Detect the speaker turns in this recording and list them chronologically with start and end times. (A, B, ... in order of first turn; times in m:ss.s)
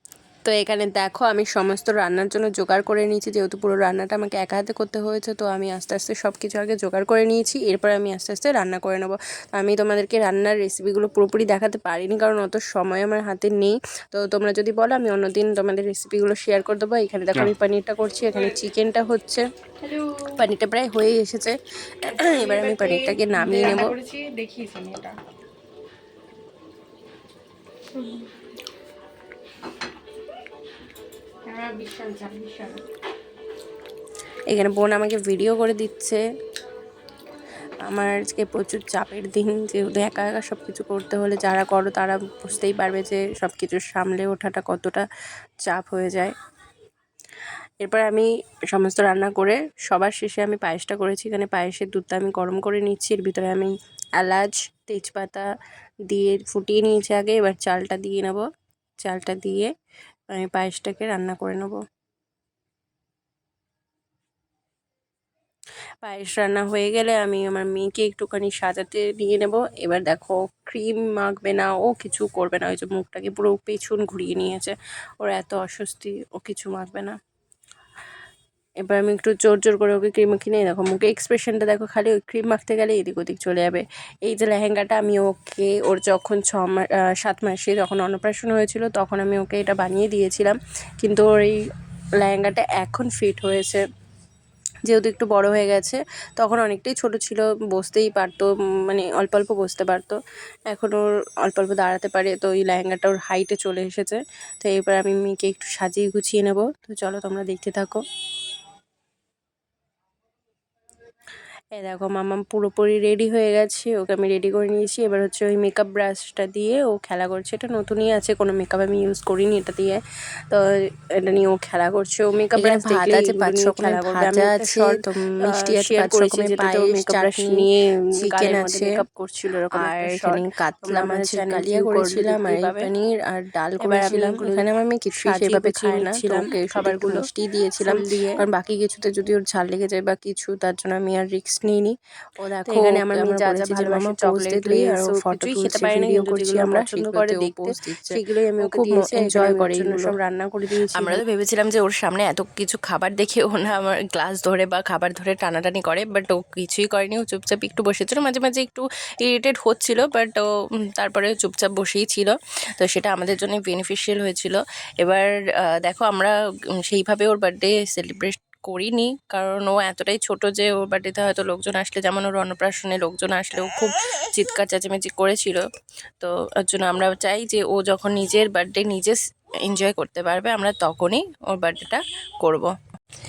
0:00.5-0:19.4 A
0:19.8-0:20.2 B
0:20.4-0:24.0 A
0:22.2-0:25.2 B
0:27.9-0:28.3 B
0:31.5-0:32.8 B
0:34.5-0:36.2 A
0:37.9-0:45.0 A
0:45.6-0:46.3 A
0:47.8-0:55.5 A
0:56.1-0:58.4 A
0:59.0-0:59.7 A
1:00.3-1:01.8 A
1:06.0-1:17.2 A
1:18.8-1:31.6 A
1:32.2-1:33.8 A
1:34.9-1:40.2 A
1:40.7-1:48.0 A
1:51.8-2:00.0 A
2:01.2-2:21.9 A
2:02.6-2:07.7 C
2:08.2-2:09.0 C
2:09.7-2:12.9 C
2:13.8-2:18.5 C
2:22.6-2:30.2 C
2:22.7-2:31.2 A
2:31.0-2:40.4 C
2:41.0-2:46.3 C
2:46.9-2:48.0 C
2:47.7-2:53.9 A
2:50.6-2:51.4 C
2:53.5-2:53.8 C
2:54.4-2:55.6 C
2:54.8-2:55.5 A
2:56.2-2:59.2 C
2:59.7-3:02.7 C